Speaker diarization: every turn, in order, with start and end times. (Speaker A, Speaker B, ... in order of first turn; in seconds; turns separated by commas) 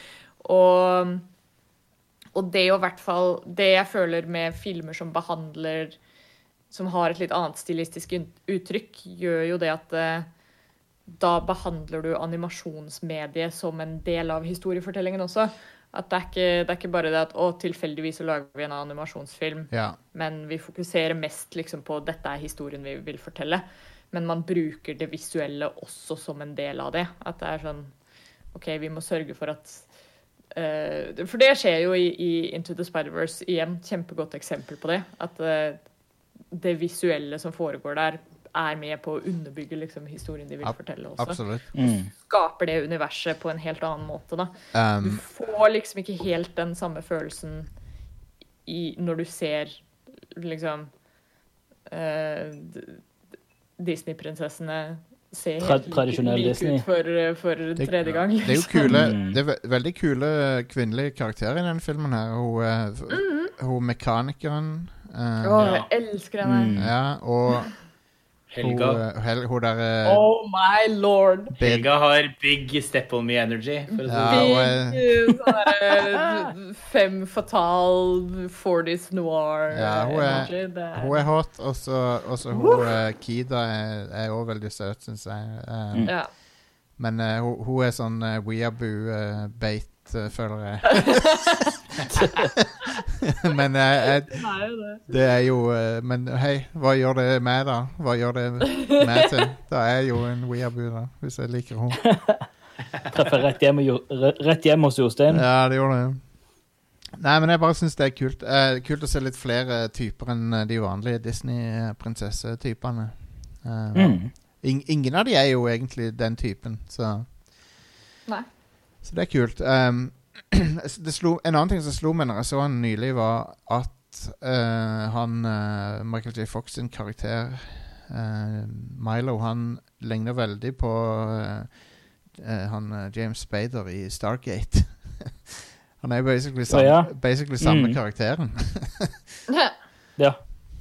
Speaker A: 0.4-1.3, Speaker A: 2.3-6.0, Speaker A: 6.7-10.3, Speaker A: 11.1-28.0, Speaker B: 19.7-20.0, Speaker A: 28.5-29.9, Speaker A: 30.5-35.9, Speaker A: 36.5-47.8, Speaker B: 40.6-41.7, Speaker C: 41.8-42.1, Speaker B: 44.7-45.2, Speaker A: 48.6-51.0, Speaker A: 51.9-53.0, Speaker A: 53.8-59.3, Speaker C: 55.6-56.9, Speaker B: 57.8-65.8, Speaker C: 58.7-59.3, Speaker A: 63.1-63.5, Speaker A: 65.4-67.1, Speaker D: 65.6-65.9, Speaker C: 66.4-66.9, Speaker B: 66.8-67.9, Speaker D: 68.5-69.0, Speaker B: 68.6-70.2, Speaker A: 70.0-71.5, Speaker B: 71.6-71.9, Speaker D: 71.6-74.7, Speaker A: 73.9-81.3, Speaker B: 74.0-75.2, Speaker B: 79.7-92.7, Speaker A: 82.5-82.9, Speaker A: 86.0-86.3, Speaker B: 93.4-102.2, Speaker A: 94.4-95.0, Speaker C: 102.1-102.4, Speaker C: 103.1-105.4, Speaker B: 105.3-106.5, Speaker B: 107.2-117.4, Speaker C: 113.9-114.3, Speaker B: 119.0-139.2, Speaker C: 136.7-138.0